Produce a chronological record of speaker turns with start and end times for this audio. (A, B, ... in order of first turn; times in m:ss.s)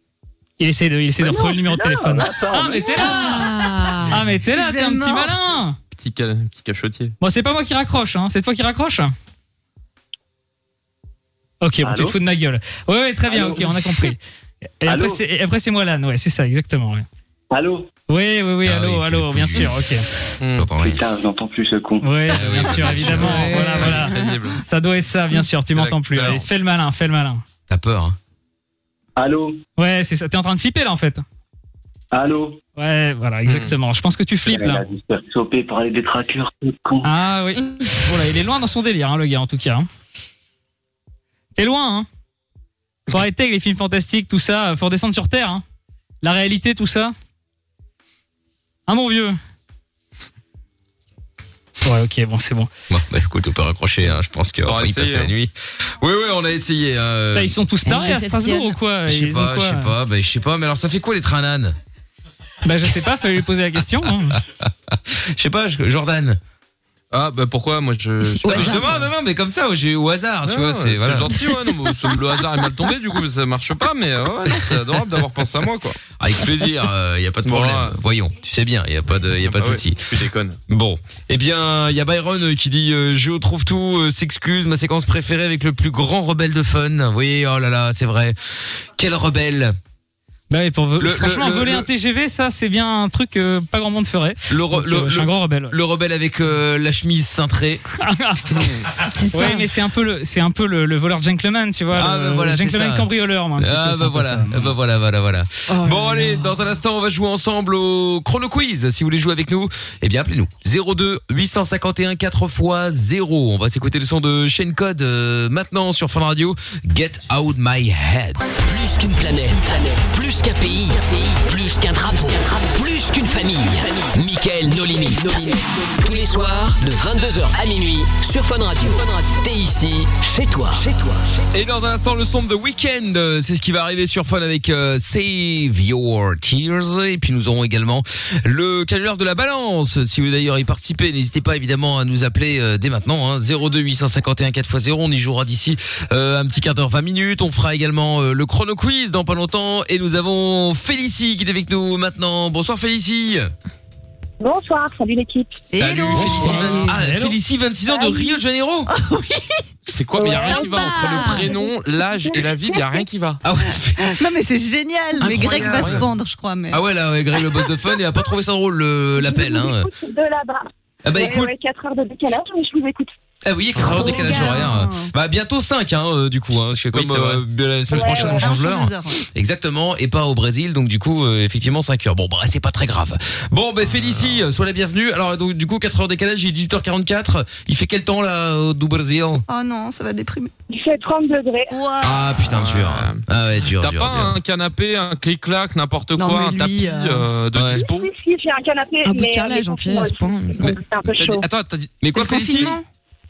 0:00.6-0:03.5 A
0:01.2-0:03.4 B
0:03.0-0:04.2 C
0:04.1-0:05.8 A
0:04.5-0:05.3 D
0:05.9-0:07.2 E
0:07.2-0:09.1 A
0:11.6-0:14.2 A
0:11.8-0:12.2 B
0:13.3-0:13.8 B
0:14.8-0:17.0 A
0:14.8-0:15.2 B
0:17.5-0:17.9 B
0:18.1-0:20.1 A
0:18.6-0:19.7 F
0:20.4-0:20.7 E
0:20.5-0:21.0 F
0:20.8-0:22.1 B
0:22.0-0:27.4 A
0:22.3-0:23.5 F
0:22.3-0:24.6 E
0:25.7-0:26.4 E
0:27.7-0:28.2 F
0:29.2-0:29.6 B
0:29.8-0:31.2 A
0:32.1-0:32.6 B
0:32.8-0:34.9 A
0:33.5-0:33.7 E
0:34.4-0:37.1 B
0:37.0-0:39.9 A
0:41.6-0:42.1 A
0:43.1-0:45.6 A
0:46.2-0:47.1 A
0:48.9-0:49.4 A
0:51.8-0:52.7 A
0:52.9-0:57.6 F
0:54.6-0:55.3 E
0:57.3-0:59.9 A
0:57.8-0:58.8 C
0:59.1-1:01.8 F
1:02.6-1:04.4 A
1:04.0-1:06.4 F
1:07.1-1:09.1 E
1:08.4-1:08.8 C
1:08.5-1:11.6 F
1:10.4-1:16.0 E
1:16.2-1:29.8 F
1:17.4-1:18.0 E
1:19.4-1:20.6 E
1:30.5-1:35.7 A
1:31.0-1:31.9 F
1:34.5-1:37.8 F
1:38.0-1:38.7 A
1:39.1-1:39.7 C
1:39.3-1:44.7 A
1:41.9-1:58.5 F
1:45.7-1:46.5 C
1:58.6-2:11.4 G
2:11.5-2:33.5 F
2:34.4-2:35.7 H
2:35.7-2:36.7 D
2:35.8-2:38.9 F
2:36.2-2:37.4 A
2:37.9-2:38.4 H
2:38.9-2:39.6 D
2:39.9-2:43.4 E
2:40.2-2:43.1 H
2:40.2-2:41.5 C
2:43.4-2:44.1 F
2:44.0-2:46.8 D
2:45.2-2:46.1 F
2:45.7-2:46.0 E
2:46.7-2:49.9 F
2:47.3-2:47.7 D
2:49.2-2:53.1 H
2:51.0-2:51.5 F
2:53.4-3:09.4 F
2:53.9-2:54.8 C
2:53.9-2:55.1 D
2:56.7-2:57.4 E
2:57.9-2:58.6 H
2:57.9-2:59.2 D
3:03.8-3:04.5 E
3:09.5-3:10.5 D
3:10.7-3:11.8 H
3:11.7-3:12.3 D
3:12.0-3:14.4 F
3:12.5-3:13.2 E
3:13.7-3:18.1 E
3:16.2-3:17.3 D
3:17.5-3:17.8 F
3:17.7-3:21.5 H
3:19.0-3:20.7 C
3:21.0-3:21.9 E
3:22.0-3:22.8 F
3:22.1-3:22.8 D